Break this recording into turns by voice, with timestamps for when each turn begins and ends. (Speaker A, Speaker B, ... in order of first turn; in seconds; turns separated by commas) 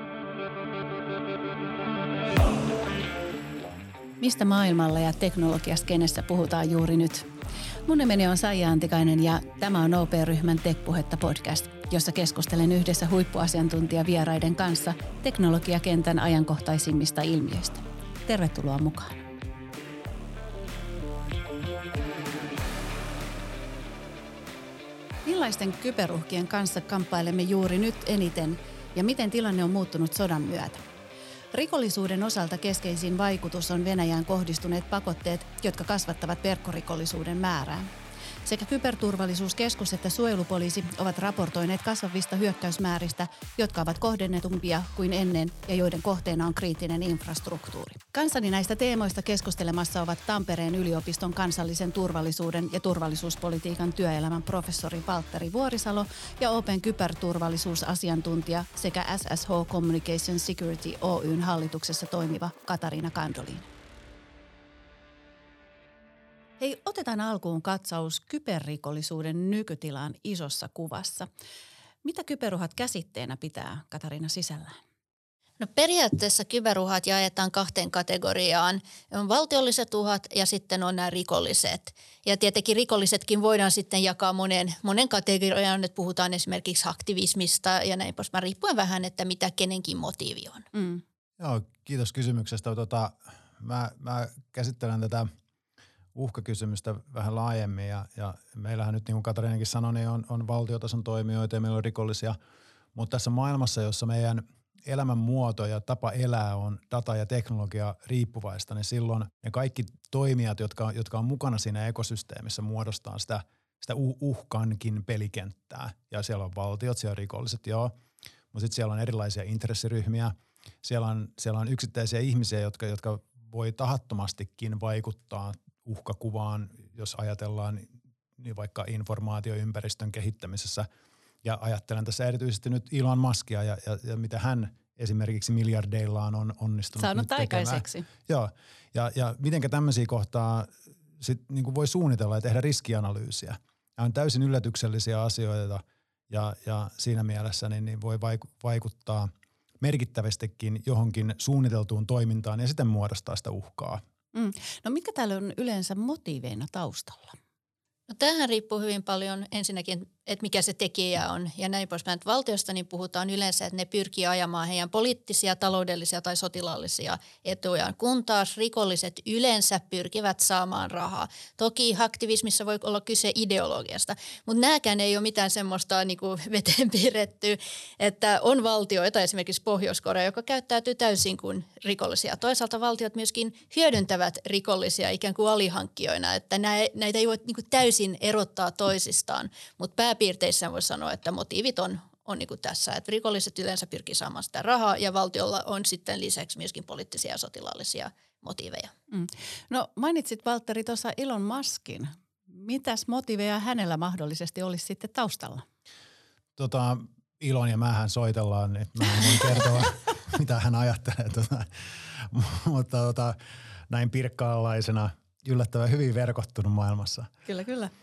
Speaker A: 4.2-7.3, Speaker A: 7.8-19.2, Speaker A: 25.2-30.9, Speaker A: 31.5-37.9, Speaker A: 38.5-63.7, Speaker A: 66.6-71.3, Speaker A: 72.0-74.8, Speaker B: 75.6-90.7, Speaker A: 90.7-91.0, Speaker C: 91.4-95.3, Speaker C: 96.2-102.3, Speaker C: 102.9-117.9, Speaker C: 118.5-130.9, Speaker C: 131.4-149.3, Speaker A: 137.0-138.1, Speaker C: 149.8-154.0, Speaker A: 154.3-157.4, Speaker B: 158.1-198.9, Speaker A: 199.1-205.7, Speaker C: 206.6-213.4, Speaker C: 213.9-217.3, Speaker A: 217.5-217.9